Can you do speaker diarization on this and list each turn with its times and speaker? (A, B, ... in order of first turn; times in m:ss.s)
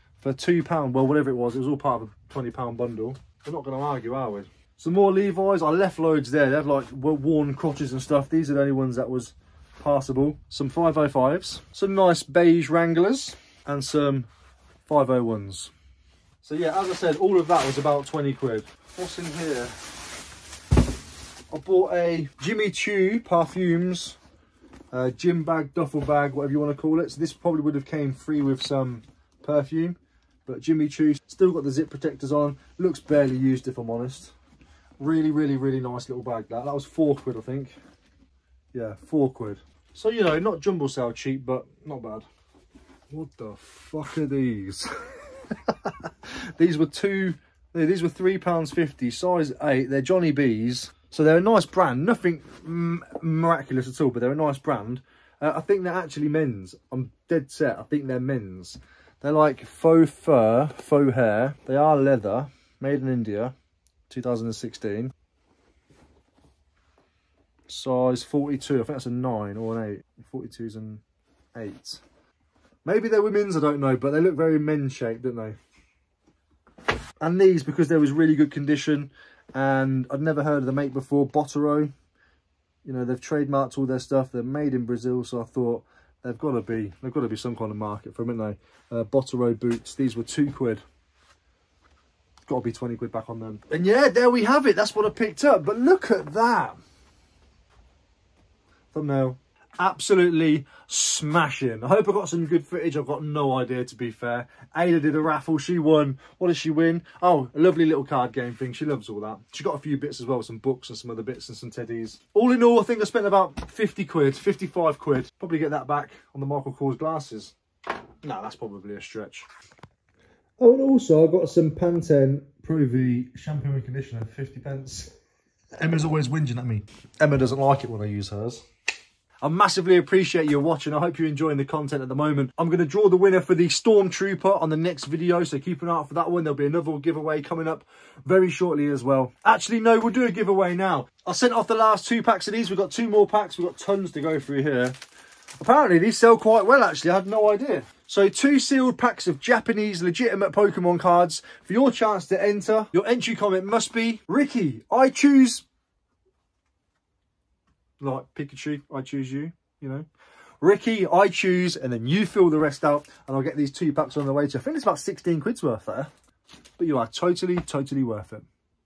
0:00.2-0:14.3 A
0:14.8-0:15.7 A
0:16.4-0:19.8 A
0:21.5-0:24.2 A
0:24.9-0:34.3 A
0:35.0-0:37.8 A
0:38.7-0:42.2 A
0:43.1-1:03.5 A
1:04.1-1:05.1 A
1:07.7-1:11.0 A
1:11.5-1:12.0 A
1:12.8-1:15.6 A
1:17.2-1:21.9 A
1:22.8-1:30.8 A
1:32.5-1:36.8 A
1:38.9-1:57.5 A
1:58.2-1:59.4 A
2:00.6-2:05.1 A
2:05.8-2:08.6 A
2:09.4-2:25.0 A
2:25.6-2:35.6 A
2:38.0-2:40.1 A
2:40.6-2:46.1 A
2:46.8-2:48.4 A